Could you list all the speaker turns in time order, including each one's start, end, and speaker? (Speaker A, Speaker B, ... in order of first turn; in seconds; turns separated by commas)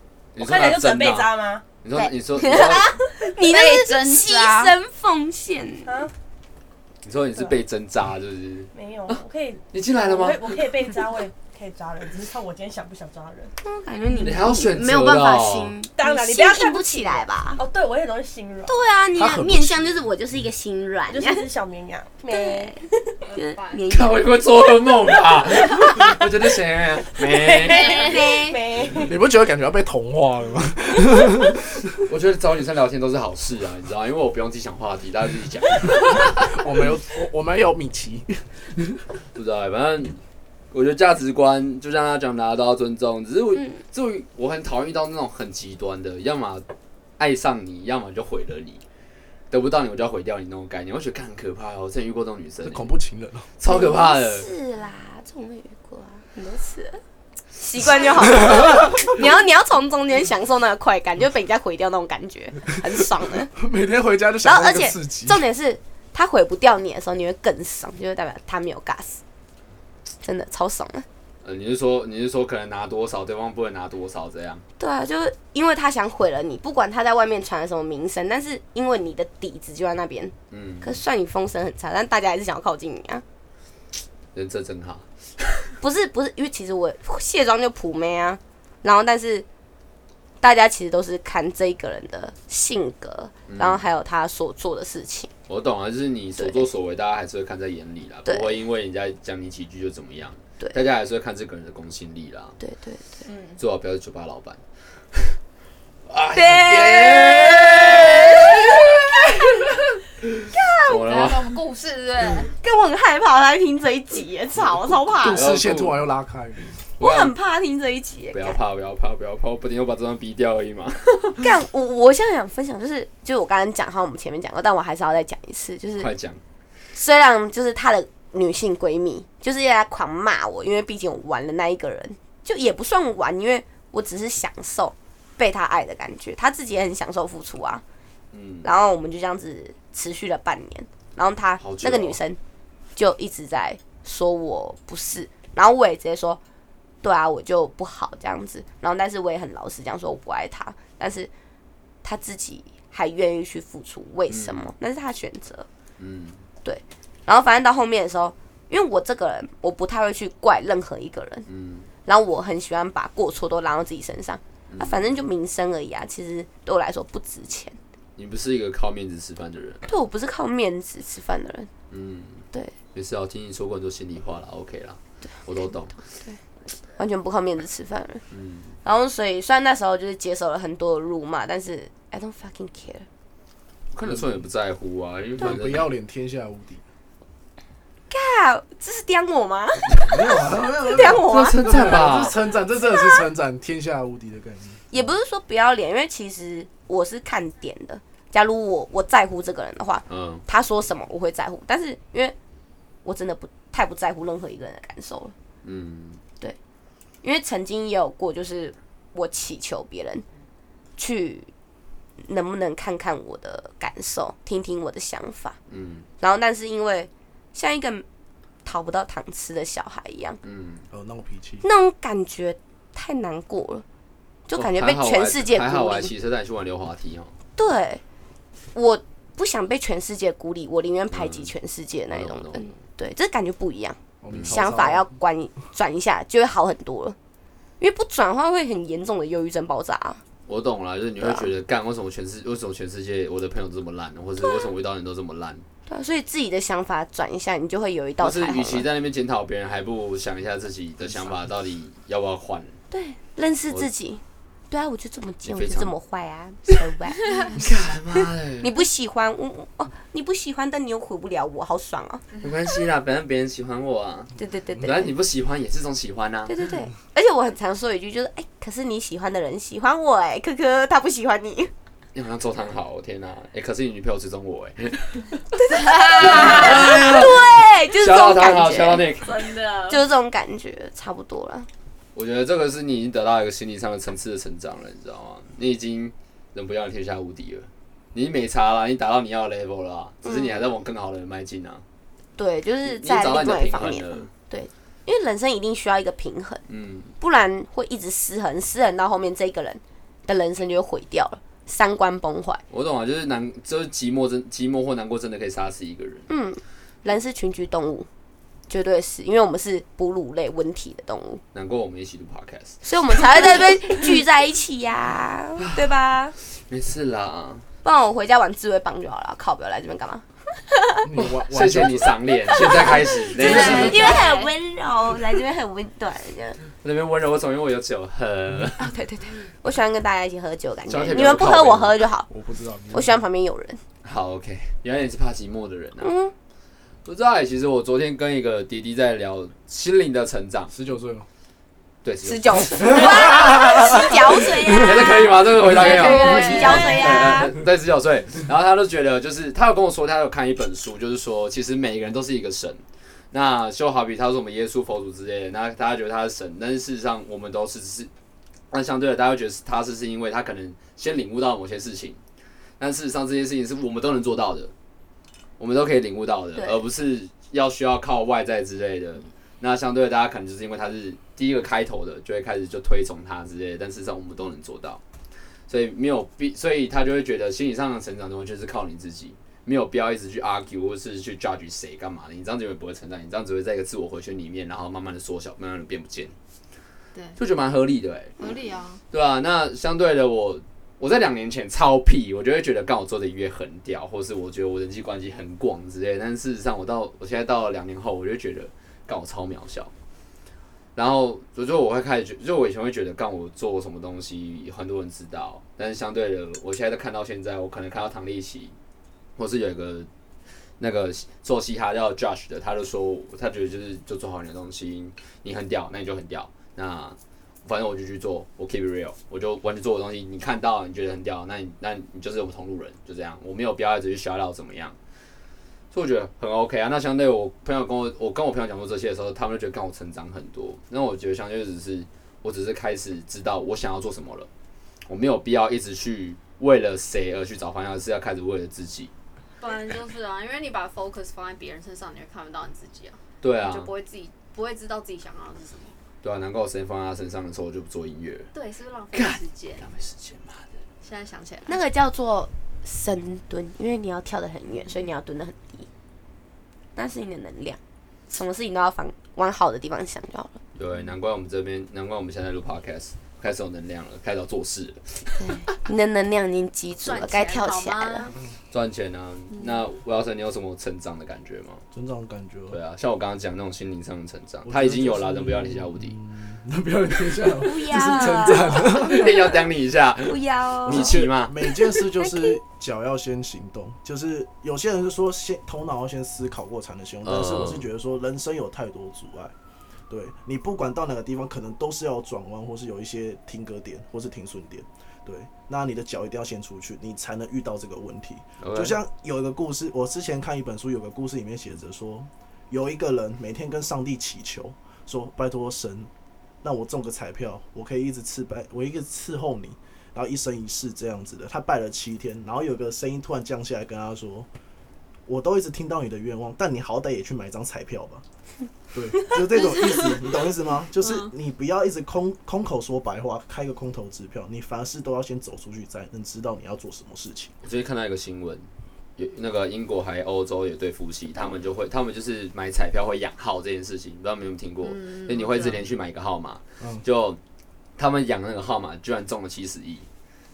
Speaker A: 0.3-1.3, Speaker B: 0.4-1.6, Speaker A: 1.8-3.0, Speaker C: 1.9-6.0, Speaker D: 3.2-4.8, Speaker B: 5.8-6.1, Speaker A: 7.0-9.2, Speaker B: 8.7-13.5, Speaker A: 9.7-10.7, Speaker C: 13.6-17.6, Speaker A: 14.2-15.7, Speaker B: 16.0-18.7, Speaker C: 18.6-21.5, Speaker E: 19.1-20.0, Speaker B: 21.1-22.9, Speaker C: 22.3-24.2, Speaker D: 23.2-23.8, Speaker A: 23.9-28.1, Speaker B: 27.2-29.2, Speaker C: 27.9-28.6, Speaker E: 28.9-31.6, Speaker A: 32.0-36.6, Speaker E: 36.4-39.0, Speaker A: 39.3-40.2, Speaker A: 40.7-46.6, Speaker A: 47.2-48.8, Speaker A: 49.5-52.9, Speaker E: 52.6-53.5, Speaker A: 53.6-54.5, Speaker C: 53.6-57.0, Speaker C: 57.6-63.5, Speaker E: 58.4-58.8, Speaker E: 63.5-65.4, Speaker C: 64.4-69.2, Speaker C: 70.2-71.0, Speaker A: 71.4-74.6, Speaker C: 74.8-83.2, Speaker A: 80.5-81.0, Speaker A: 84.3-85.5, Speaker C: 85.8-89.5, Speaker C: 90.4-95.3, Speaker A: 93.5-93.8, Speaker A: 95.5-102.6, Speaker C: 96.4-96.7, Speaker C: 98.2-98.6, Speaker C: 102.6-103.1, Speaker D: 103.2-103.6, Speaker A: 103.6-104.6, Speaker A: 106.1-110.3, Speaker C: 106.3-109.4, Speaker C: 110.5-110.9, Speaker A: 110.8-111.6, Speaker D: 110.9-112.5, Speaker C: 112.6-115.5, Speaker A: 114.8-116.1, Speaker E: 115.2-116.8, Speaker A: 117.0-117.3, Speaker C: 117.0-118.6, Speaker A: 118.3-121.5, Speaker C: 121.4-126.1, Speaker A: 126.0-126.4, Speaker C: 126.9-137.8, Speaker A: 138.3-138.7, Speaker C: 138.6-142.4, Speaker A: 141.6-142.2, Speaker C: 142.9-146.4, Speaker C: 147.0-151.3, Speaker C: 152.0-155.7, Speaker A: 154.3-154.7, Speaker A: 156.0-156.4, Speaker C: 156.6-161.5, Speaker A: 161.5-161.9, Speaker C: 162.0-167.8, Speaker A: 164.7-165.3, Speaker A: 168.2-169.8, Speaker C: 169.9-171.7, Speaker A: 171.9-175.9, Speaker C: 176.9-178.2, Speaker A: 178.3-178.7, Speaker C: 178.8-183.1, Speaker A: 183.9-185.9, Speaker E: 184.0-184.4, Speaker E: 185.4-186.8, Speaker C: 188.1-192.2, Speaker E: 190.0-194.9, Speaker A: 190.9-192.3, Speaker C: 194.9-202.3, Speaker A: 200.1-200.4, Speaker C: 203.0-205.3, Speaker A: 205.6-206.2, Speaker C: 207.2-210.2, Speaker C: 211.0-211.5, Speaker C: 212.2-215.6, Speaker A: 215.7-216.1, Speaker C: 216.2-218.0, Speaker C: 218.6-220.4, Speaker A: 220.4-220.8, Speaker E: 220.9-221.7, Speaker C: 221.6-223.8, Speaker C: 224.5-226.1, Speaker A: 224.6-227.3, Speaker C: 227.6-228.0, Speaker C: 228.7-237.2, Speaker A: 231.1-231.5, Speaker A: 232.1-232.8, Speaker E: 234.2-235.1, Speaker A: 234.3-234.6, Speaker C: 237.8-240.2, Speaker A: 240.5-245.6, Speaker C: 241.2-241.5, Speaker C: 244.4-244.7, Speaker C: 245.9-248.8, Speaker A: 248.2-252.8, Speaker C: 252.9-257.2, Speaker A: 255.4-255.9, Speaker A: 257.5-258.7, Speaker C: 258.6-262.2, Speaker A: 262.4-264.3, Speaker C: 264.4-265.1, Speaker A: 264.8-266.5, Speaker C: 266.4-271.7, Speaker A: 272.1-275.3, Speaker C: 275.6-279.1, Speaker D: 275.8-276.8, Speaker A: 276.2-279.4, Speaker D: 279.2-280.0, Speaker C: 279.9-281.7, Speaker A: 282.1-291.8, Speaker C: 292.4-296.6, Speaker A: 292.8-294.3, Speaker A: 296.7-297.1, Speaker C: 297.2-302.6, Speaker A: 302.7-306.3, Speaker C: 306.3-308.1, Speaker C: 308.7-311.4, Speaker A: 311.5-313.6, Speaker C: 312.8-316.3, Speaker A: 315.6-315.9, Speaker A: 316.5-317.6, Speaker C: 317.8-321.0, Speaker E: 321.0-323.0, Speaker A: 321.4-324.2, Speaker C: 322.5-326.6, Speaker D: 323.4-324.5, Speaker E: 323.7-324.0, Speaker A: 326.8-328.9, Speaker C: 328.8-332.3, Speaker A: 330.9-331.9, Speaker E: 332.3-333.2, Speaker C: 332.9-333.8, Speaker A: 334.0-336.1, Speaker C: 336.0-336.3, Speaker A: 337.0-340.7, Speaker E: 340.7-341.3, Speaker A: 342.0-343.4, Speaker C: 342.2-347.5, Speaker E: 342.9-344.0, Speaker A: 344.8-358.1, Speaker D: 345.8-347.2, Speaker A: 358.7-362.2, Speaker A: 362.8-364.7, Speaker A: 365.6-375.0, Speaker A: 375.7-386.3, Speaker A: 387.4-388.4, Speaker D: 388.4-389.0, Speaker A: 389.1-399.9, Speaker A: 400.9-408.7, Speaker A: 409.4-410.1, Speaker A: 410.8-425.0, Speaker A: 425.9-434.5, Speaker A: 435.1-439.1, Speaker D: 439.6-445.9, Speaker A: 443.4-443.9, Speaker A: 446.2-448.5, Speaker D: 448.5-449.9, Speaker A: 449.1-450.7, Speaker D: 451.0-451.8, Speaker C: 451.7-455.9, Speaker C: 456.9-457.8, Speaker C: 458.3-460.6, Speaker A: 460.7-465.5, Speaker C: 465.4-468.3, Speaker D: 467.0-468.3, Speaker A: 468.7-471.8, Speaker D: 469.5-469.8, Speaker E: 471.9-472.8, Speaker A: 472.7-476.1, Speaker E: 474.6-479.5, Speaker C: 477.6-479.4, Speaker A: 478.5-481.6, Speaker C: 480.2-481.2, Speaker E: 480.9-489.5, Speaker C: 482.2-482.6, Speaker A: 487.2-487.9, Speaker E: 490.1-506.1, Speaker A: 498.6-499.0, Speaker E: 506.6-514.5, Speaker E: 515.3-518.2, Speaker E: 518.9-527.5, Speaker D: 519.7-520.2, Speaker D: 521.0-521.3, Speaker A: 527.6-528.6, Speaker A: 529.2-537.4, Speaker D: 534.8-535.8, Speaker A: 538.0-540.1